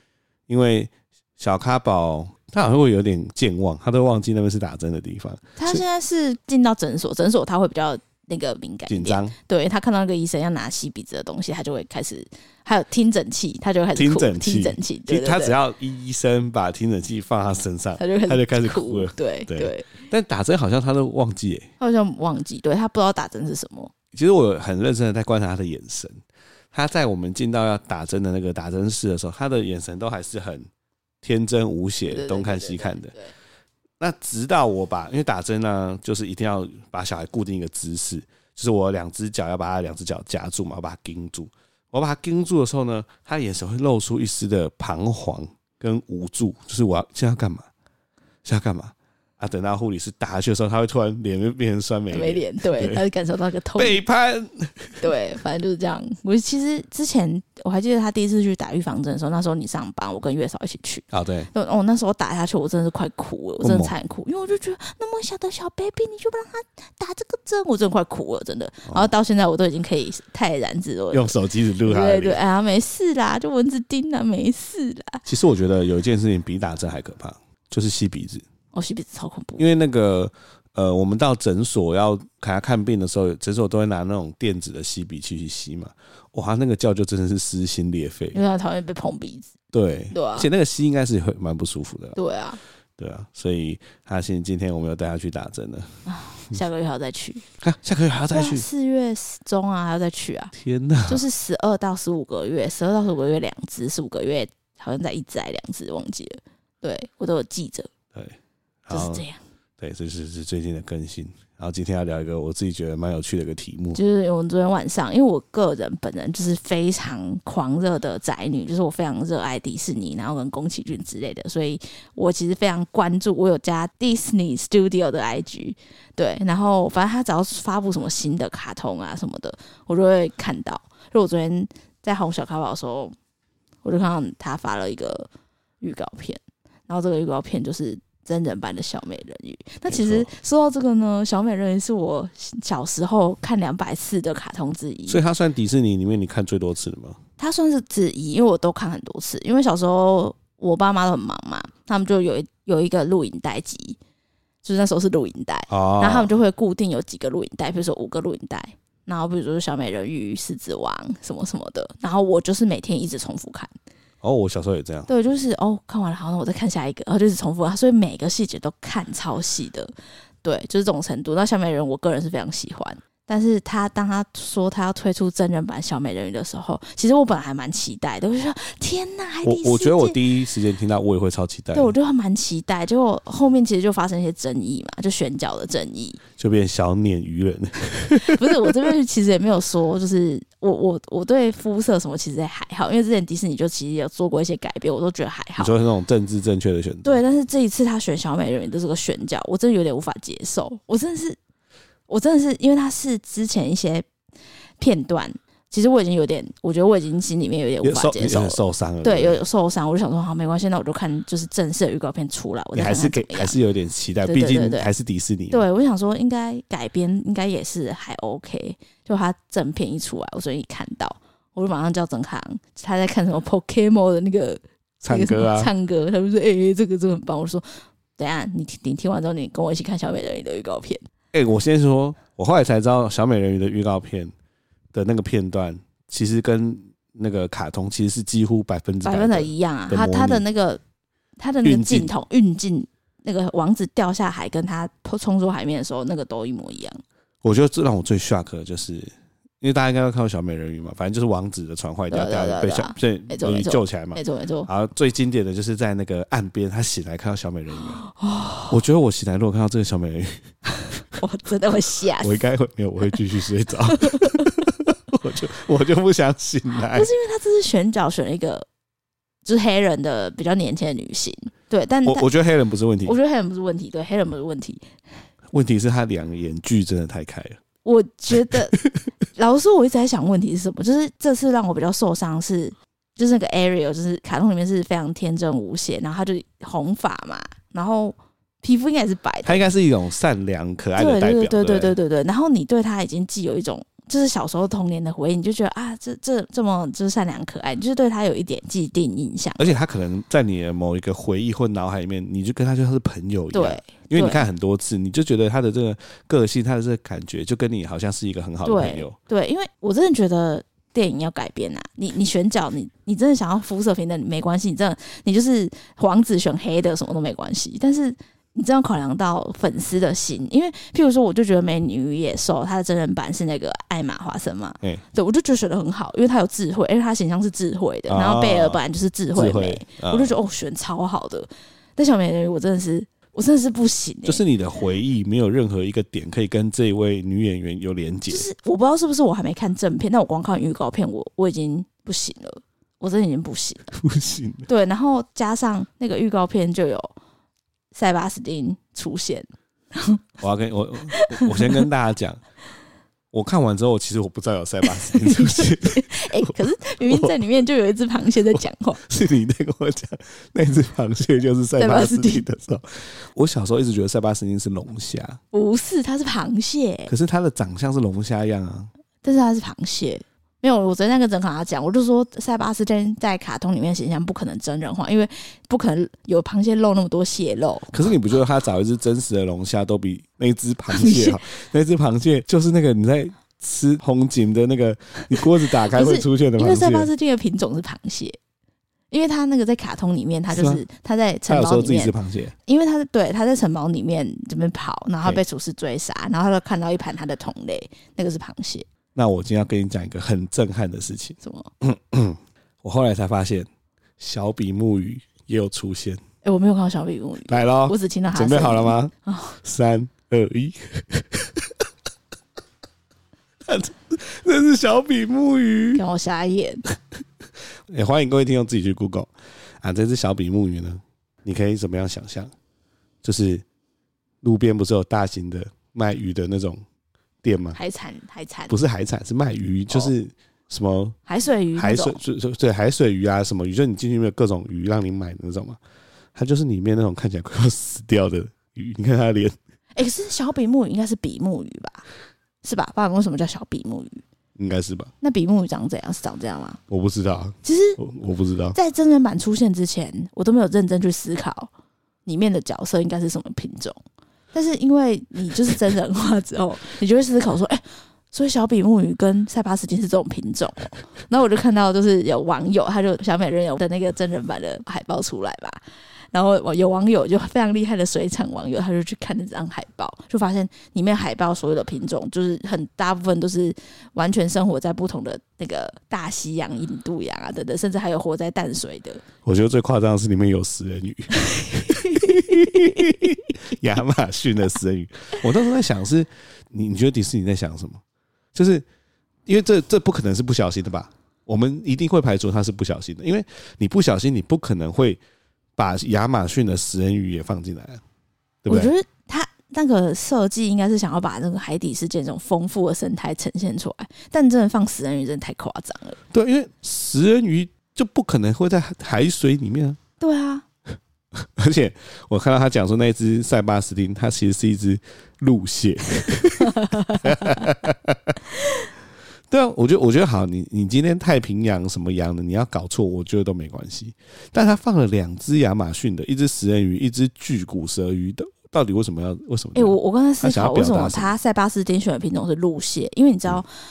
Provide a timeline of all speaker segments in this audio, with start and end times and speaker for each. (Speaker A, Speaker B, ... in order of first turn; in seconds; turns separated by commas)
Speaker A: 0.5-5.8, Speaker B: 5.6-15.5, Speaker A: 8.9-9.3, Speaker A: 13.9-21.7, Speaker B: 18.0-20.1, Speaker B: 21.8-23.9, Speaker A: 24.1-26.2, Speaker A: 26.7-30.7, Speaker A: 31.2-33.1, Speaker B: 32.1-33.3, Speaker A: 34.0-47.7, Speaker A: 48.4-53.0, Speaker B: 52.1-54.0, Speaker A: 53.8-55.0, Speaker B: 55.0-75.2, Speaker A: 61.1-61.5, Speaker A: 63.6-63.9, Speaker A: 68.8-69.1, Speaker A: 71.1-72.4, Speaker A: 75.2-78.4, Speaker B: 78.7-79.6, Speaker A: 79.6-88.4, Speaker B: 88.3-89.5, Speaker A: 89.7-92.2, Speaker B: 90.1-90.5, Speaker B: 92.2-92.6, Speaker A: 93.0-95.9, Speaker B: 96.1-97.4, Speaker A: 97.6-98.7, Speaker B: 98.3-100.5, Speaker A: 100.5-101.2, Speaker B: 101.1-107.9, Speaker A: 108.1-109.2, Speaker B: 108.9-109.4, Speaker A: 109.8-114.0, Speaker B: 113.9-133.1, Speaker B: 133.8-135.3, Speaker B: 135.8-145.2, Speaker A: 139.9-140.3, Speaker A: 145.1-147.2, Speaker B: 147.4-154.0, Speaker B: 154.6-163.7, Speaker A: 155.7-156.3, Speaker A: 164.2-165.1, Speaker B: 165.1-169.9, Speaker B: 170.4-180.2, Speaker A: 179.4-181.9, Speaker B: 181.7-186.2, Speaker A: 186.4-188.7, Speaker B: 188.1-195.7, Speaker A: 195.6-197.2, Speaker B: 197.0-201.4, Speaker B: 202.1-204.1, Speaker B: 204.8-213.6, Speaker A: 207.8-209.4, Speaker A: 212.7-215.6, Speaker B: 214.2-214.9, Speaker B: 215.5-227.6, Speaker A: 225.0-225.7, Speaker B: 228.2-231.0, Speaker A: 231.3-234.3, Speaker A: 234.9-240.4, Speaker B: 239.0-240.8, Speaker B: 241.4-247.0, Speaker A: 241.6-242.1, Speaker A: 247.4-258.0, Speaker B: 252.1-254.7, Speaker B: 257.8-258.8, Speaker A: 258.7-260.5, Speaker B: 261.1-262.4, Speaker A: 262.2-267.1, Speaker B: 263.9-264.6, Speaker B: 266.8-268.6, Speaker B: 269.4-272.3, Speaker A: 272.1-273.1, Speaker B: 273.0-274.8, Speaker A: 275.5-277.6, Speaker B: 277.8-278.8, Speaker A: 278.5-279.0, Speaker B: 279.4-289.7, Speaker A: 289.4-291.9, Speaker B: 291.0-299.7, Speaker A: 299.6-309.1, Speaker B: 303.5-304.4, Speaker B: 308.6-334.4, Speaker A: 328.1-328.8, Speaker A: 329.3-330.3, Speaker A: 334.2-338.5, Speaker B: 338.3-343.9, Speaker A: 343.9-344.7, Speaker B: 344.7-347.1, Speaker B: 347.9-350.2, Speaker A: 350.4-352.4, Speaker B: 351.1-351.9, Speaker A: 353.3-357.4, Speaker B: 354.8-359.0, Speaker A: 358.5-365.4, Speaker B: 361.8-362.4, Speaker B: 365.5-367.1, Speaker A: 367.1-368.9, Speaker B: 369.2-378.0, Speaker A: 377.9-387.1, Speaker B: 380.9-381.4, Speaker B: 385.6-388.4, Speaker B: 389.1-392.1, Speaker A: 390.5-390.8, Speaker A: 391.5-392.5, Speaker B: 392.6-398.9, Speaker A: 399.1-403.7, Speaker B: 401.4-401.7, Speaker A: 404.2-406.2, Speaker B: 406.4-409.6, Speaker A: 407.5-411.8, Speaker A: 413.6-416.0, Speaker B: 415.9-416.8, Speaker A: 417.9-419.3, Speaker A: 419.8-422.5, Speaker A: 423.2-423.6, Speaker A: 424.4-426.8, Speaker A: 427.4-427.8, Speaker B: 427.7-428.7, Speaker A: 428.7-431.2, Speaker B: 431.3-432.2, Speaker A: 431.8-435.8, Speaker A: 436.3-439.5, Speaker B: 439.9-442.1, Speaker B: 442.6-444.2, Speaker A: 444.6-445.1, Speaker B: 445.2-446.8, Speaker A: 446.9-448.8, Speaker B: 447.6-448.0, Speaker B: 448.7-451.7, Speaker B: 452.2-454.0, Speaker B: 454.5-465.8, Speaker B: 466.3-479.2, Speaker A: 479.4-488.0, Speaker B: 481.4-483.3, Speaker A: 488.5-488.9, Speaker A: 489.4-495.2, Speaker A: 495.8-498.0, Speaker A: 498.6-498.9, Speaker B: 498.7-506.2, Speaker A: 506.3-510.0, Speaker B: 510.2-510.6, Speaker A: 511.3-518.4, Speaker B: 516.7-517.6, Speaker A: 519.5-531.3, Speaker B: 529.7-533.7